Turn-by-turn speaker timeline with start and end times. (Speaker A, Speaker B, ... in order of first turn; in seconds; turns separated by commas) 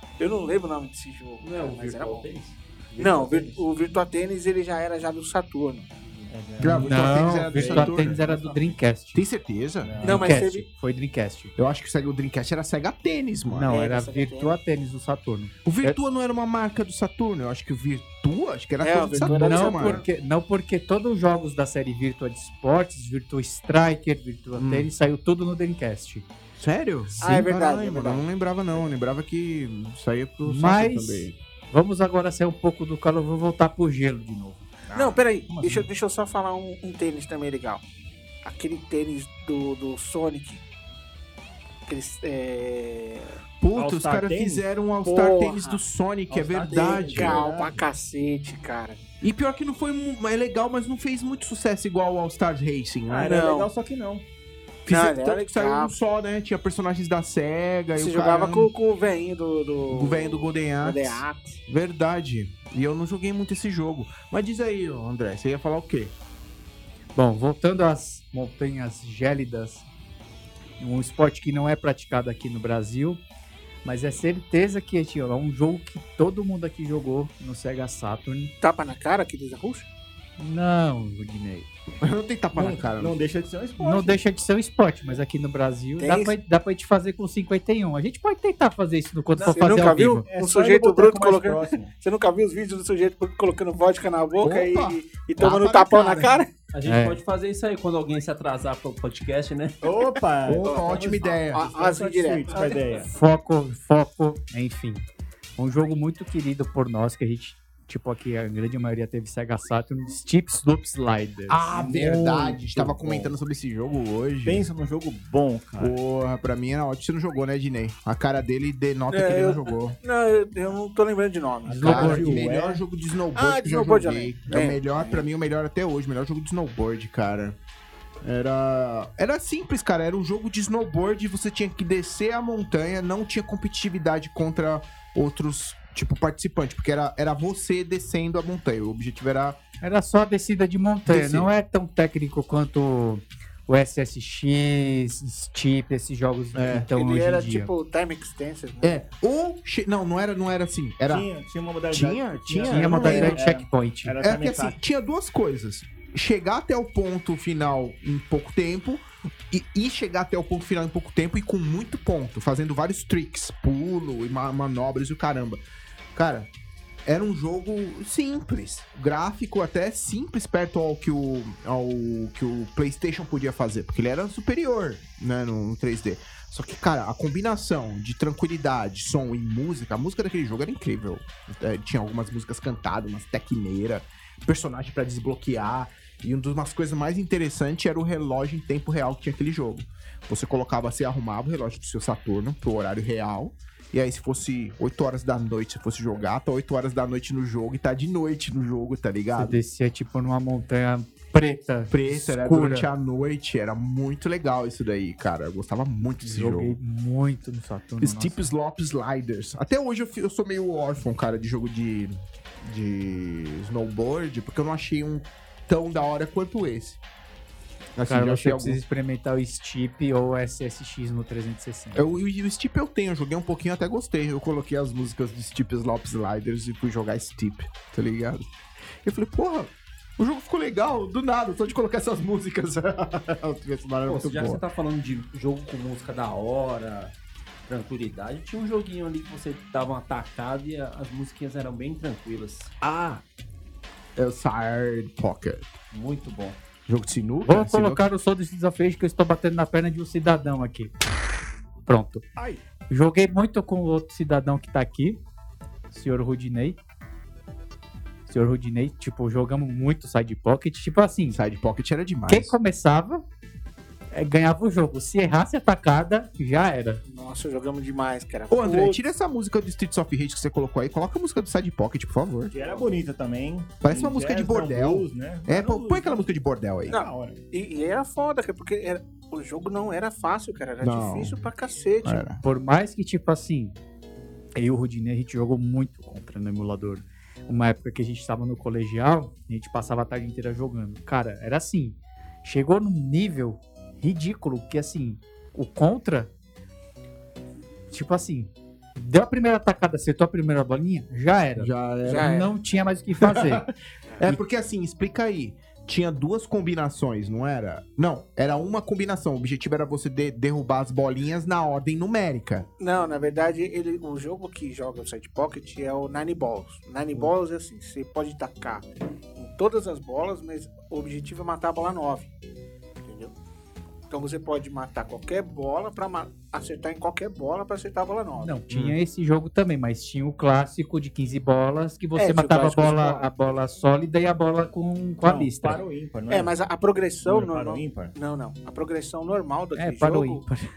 Speaker A: 0.2-2.2, Speaker B: 1.4-3.6, Speaker A: 3.0-5.9, Speaker C: 6.3-8.6, Speaker D: 6.6-8.2, Speaker E: 6.6-9.2, Speaker D: 9.1-10.2, Speaker C: 9.8-10.4, Speaker A: 10.0-10.6, Speaker E: 10.0-11.5, Speaker D: 11.6-13.7, Speaker E: 13.5-16.0, Speaker A: 13.7-14.6, Speaker D: 15.6-20.0, Speaker A: 18.8-20.1, Speaker E: 19.2-26.2, Speaker D: 24.6-24.9, Speaker D: 26.6-31.3, Speaker A: 27.2-28.2, Speaker E: 30.4-34.6, Speaker C: 34.9-35.9, Speaker A: 34.9-37.8, Speaker A: 38.4-40.6, Speaker A: 41.9-43.4, Speaker D: 43.6-47.4, Speaker C: 43.8-44.6, Speaker A: 45.0-45.8, Speaker C: 46.3-47.8, Speaker A: 46.7-49.0, Speaker D: 49.2-53.4, Speaker C: 53.1-54.2, Speaker A: 53.2-53.7, Speaker D: 54.9-58.7, Speaker A: 54.9-55.9, Speaker A: 57.9-61.6, Speaker D: 59.9-66.1, Speaker E: 67.2-69.8, Speaker E: 70.8-73.2, Speaker E: 73.8-78.5, Speaker A: 78.6-79.9, Speaker E: 80.4-81.7, Speaker D: 82.0-83.2, Speaker C: 82.5-84.2, Speaker E: 83.8-90.2, Speaker A: 86.0-86.3, Speaker A: 89.4-96.5, Speaker C: 89.7-91.9, Speaker D: 94.4-96.4, Speaker B: 96.7-99.8, Speaker E: 96.8-97.2, Speaker C: 99.8-103.1, Speaker D: 100.5-101.7, Speaker A: 100.6-103.0, Speaker E: 103.1-105.0, Speaker E: 105.6-112.3, Speaker D: 111.5-114.7, Speaker C: 111.8-113.3, Speaker C: 114.5-116.0, Speaker D: 115.8-120.0, Speaker A: 119.1-122.1, Speaker C: 121.6-122.8, Speaker E: 121.7-122.4, Speaker D: 121.8-127.6, Speaker A: 123.3-125.2, Speaker D: 128.2-139.6, Speaker E: 139.8-147.7, Speaker D: 141.1-141.5, Speaker D: 146.5-146.9, Speaker A: 146.9-149.0, Speaker D: 148.8-151.3, Speaker C: 151.1-154.8, Speaker D: 151.9-153.4, Speaker E: 152.6-154.2, Speaker D: 154.2-165.6, Speaker D: 166.1-166.5, Speaker D: 167.1-199.6, Speaker E: 199.3-202.9, Speaker D: 201.9-206.8, Speaker E: 206.2-208.4, Speaker D: 208.0-217.0, Speaker D: 217.9-218.8, Speaker E: 218.1-222.2, Speaker D: 221.9-228.5, Speaker D: 229.0-234.6, Speaker B: 234.0-237.1, Speaker B: 237.7-242.8, Speaker D: 242.8-243.2, Speaker D: 244.2-245.7, Speaker B: 245.9-246.6, Speaker D: 246.9-248.0, Speaker E: 247.4-250.9, Speaker E: 251.8-252.2, Speaker E: 252.9-255.2, Speaker E: 255.9-256.8, Speaker E: 258.3-261.4, Speaker D: 261.3-262.6, Speaker E: 262.3-263.2, Speaker E: 264.1-267.0, Speaker A: 267.0-269.0, Speaker D: 268.5-272.5, Speaker C: 272.5-276.3, Speaker D: 273.8-277.0, Speaker C: 276.9-277.4, Speaker A: 276.9-282.3, Speaker D: 280.8-281.4, Speaker D: 282.0-282.4, Speaker E: 282.4-283.8, Speaker E: 284.6-296.3, Speaker E: 297.9-303.7, Speaker D: 301.6-302.5, Speaker A: 302.1-302.5, Speaker D: 303.2-312.7, Speaker A: 312.8-322.3, Speaker A: 323.0-323.3, Speaker A: 324.1-328.6, Speaker E: 328.4-335.8, Speaker D: 328.7-329.0, Speaker A: 332.1-333.3, Speaker C: 335.2-336.5, Speaker A: 336.3-340.4, Speaker C: 337.2-338.1, Speaker E: 339.8-340.7